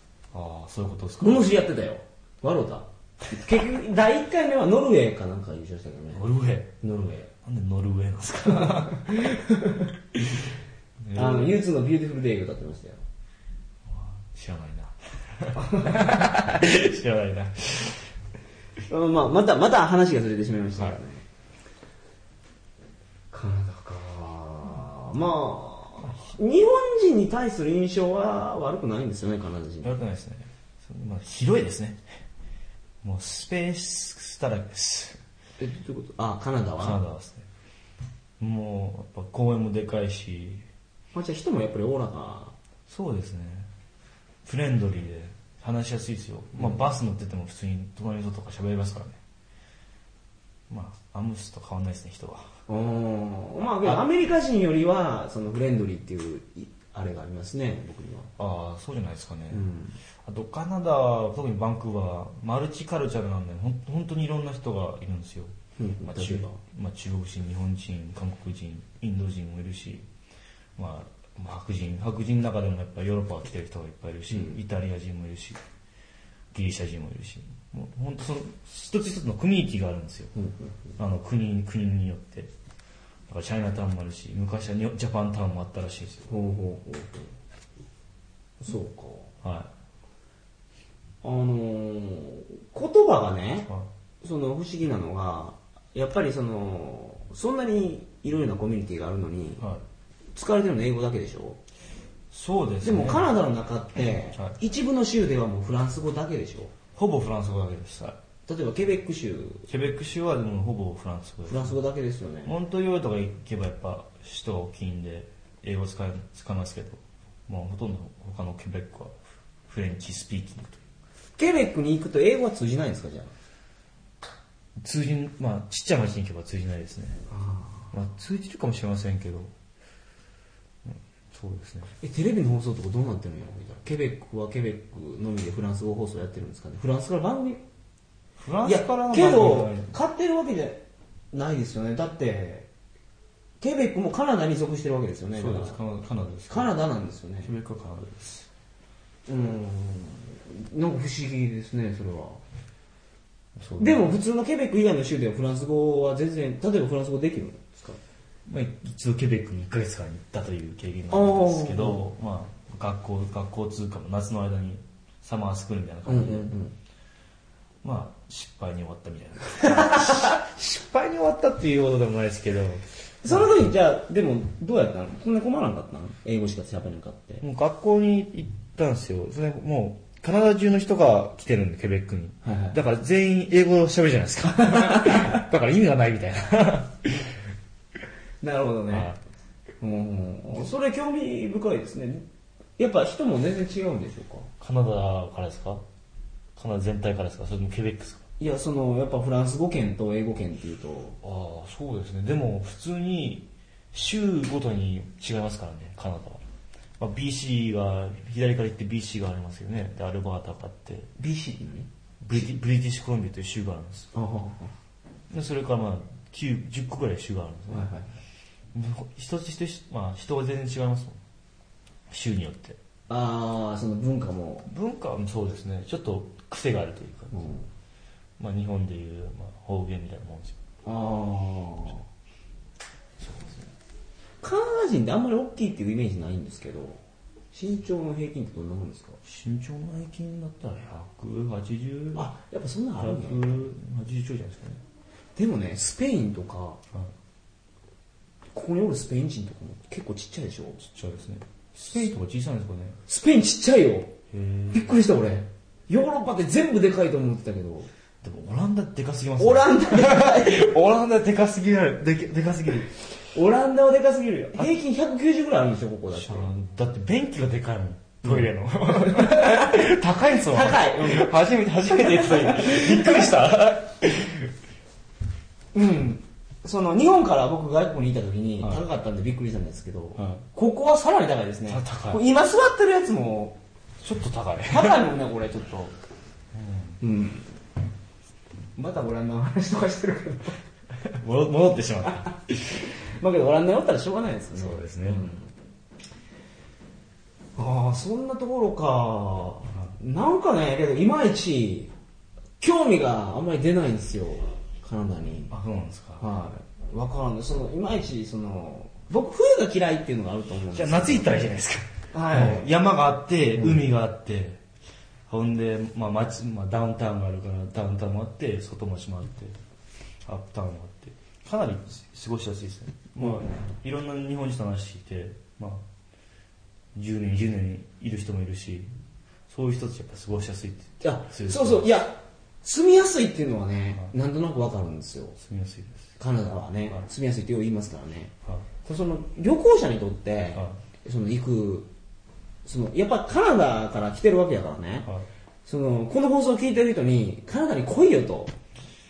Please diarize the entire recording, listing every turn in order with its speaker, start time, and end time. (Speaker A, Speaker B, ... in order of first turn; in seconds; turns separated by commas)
Speaker A: 0.3-1.5, Speaker B: 1.2-6.2, Speaker A: 6.1-6.7, Speaker B: 6.8-7.3, Speaker A: 7.4-9.3, Speaker B: 8.6-9.9, Speaker A: 10.1-10.5, Speaker A: 11.0-11.6, Speaker B: 11.1-13.0, Speaker A: 13.8-18.1, Speaker B: 15.6-16.0, Speaker B: 18.9-21.2, Speaker B: 23.3-29.9, Speaker A: 29.8-32.2, Speaker A: 33.0-35.2, Speaker B: 35.6-37.0, Speaker A: 36.8-37.5, Speaker A: 38.4-40.6, Speaker B: 41.1-42.5, Speaker A: 42.9-43.7, Speaker A: 44.4-49.2, Speaker B: 46.5-46.9, Speaker A: 50.7-52.5, Speaker B: 52.7-58.3, Speaker A: 53.6-54.1, Speaker A: 58.4-59.7, Speaker B: 59.5-60.0, Speaker A: 60.2-70.1, Speaker B: 65.8-66.6, Speaker A: 70.8-75.6, Speaker B: 74.3-74.6, Speaker A: 76.5-80.3, Speaker B: 80.3-80.7, Speaker A: 81.0-82.5, Speaker A: 83.3-86.3, Speaker B: 86.3-87.3, Speaker B: 88.6-89.3, Speaker A: 89.4-89.7, Speaker B: 91.2-93.7, Speaker B: 94.2-99.7, Speaker B: 100.3-101.6, Speaker A: 102.3-103.3, Speaker B: 102.8-106.7, Speaker A: 106.9-108.2, Speaker B: 108.5-109.7, Speaker A: 109.7-111.8, Speaker B: 111.5-112.5, Speaker A: 112.4-119.1, Speaker A: 119.7-120.8, Speaker B: 121.4-123.3, Speaker A: 124.8-127.2, Speaker B: 127.3-127.9, Speaker A: 127.9-129.5, Speaker A: 130.8-131.9, Speaker B: 131.9-137.6, Speaker A: 138.4-139.9, Speaker B: 138.6-142.7, Speaker B: 143.6-145.8, Speaker A: 145.3-146.7, Speaker B: 146.5-147.5, Speaker A: 147.4-148.5, Speaker B: 149.3-152.4, Speaker A: 153.6-154.1, Speaker B: 153.8-158.0, Speaker A: 158.5-166.5, Speaker B: 161.1-162.0, Speaker B: 166.1-166.7, Speaker A: 167.8-173.5, Speaker B: 169.6-170.4, Speaker B: 173.2-177.4, Speaker A: 177.4-187.3, Speaker B: 182.4-182.8, Speaker B: 184.7-185.4, Speaker B: 188.4-189.1, Speaker A: 188.9-189.2, Speaker B: 189.8-192.2, Speaker B: 192.8-194.5, Speaker A: 194.6-195.8, Speaker A: 196.6-198.3, Speaker B: 198.4-201.2, Speaker A: 201.2-206.4, Speaker A: 207.0-211.1, Speaker B: 211.2-211.9, Speaker A: 212.2-214.1, Speaker B: 214.1-214.7, Speaker A: 215.3-217.9, Speaker B: 217.7-218.1, Speaker A: 218.7-221.2, Speaker A: 222.1-222.8, Speaker B: 223.1-224.7, Speaker A: 224.6-227.5, Speaker B: 227.3-227.7, Speaker A: 228.4-230.6, Speaker B: 230.8-232.0, Speaker A: 233.2-233.7, Speaker B: 234.4-237.0, Speaker B: 237.5-239.2, Speaker A: 239.2-242.3, Speaker B: 242.1-243.6, Speaker A: 243.0-244.8, Speaker B: 245.3-246.8, Speaker B: 248.5-250.8, Speaker A: 250.8-253.0, Speaker B: 253.1-254.2, Speaker A: 254.3-254.9, Speaker B: 254.7-257.9, Speaker A: 258.2-262.9, Speaker B: 259.4-260.6, Speaker B: 263.3-266.5, Speaker A: 266.1-274.5, Speaker B: 268.2-269.8, Speaker B: 270.4-271.3, Speaker B: 271.9-273.3, Speaker B: 275.7-283.6, Speaker A: 278.6-278.8, Speaker A: 280.2-280.4, Speaker A: 281.7-282.2, Speaker A: 284.0-285.1, Speaker B: 284.7-285.9, Speaker A: 286.5-287.0, Speaker B: 287.0-287.5, Speaker B: 288.8-290.6, Speaker A: 291.0-292.8, Speaker B: 292.1-295.5, Speaker A: 294.5-295.3, Speaker B: 297.6-301.9, Speaker B: 302.6-305.5, Speaker A: 305.5-306.3, Speaker B: 306.2-311.5, Speaker A: 310.7-314.6, Speaker B: 312.1-312.7, Speaker A: 315.3-319.6, Speaker A: 320.2-325.8, Speaker B: 323.2-323.4, Speaker A: 326.9-328.9, Speaker A: 329.5-331.9, Speaker B: 331.0-335.4, Speaker A: 335.4-337.1, Speaker B: 336.2-341.9, Speaker A: 340.5-340.8, Speaker B: 342.6-345.1, Speaker B: 345.6-348.5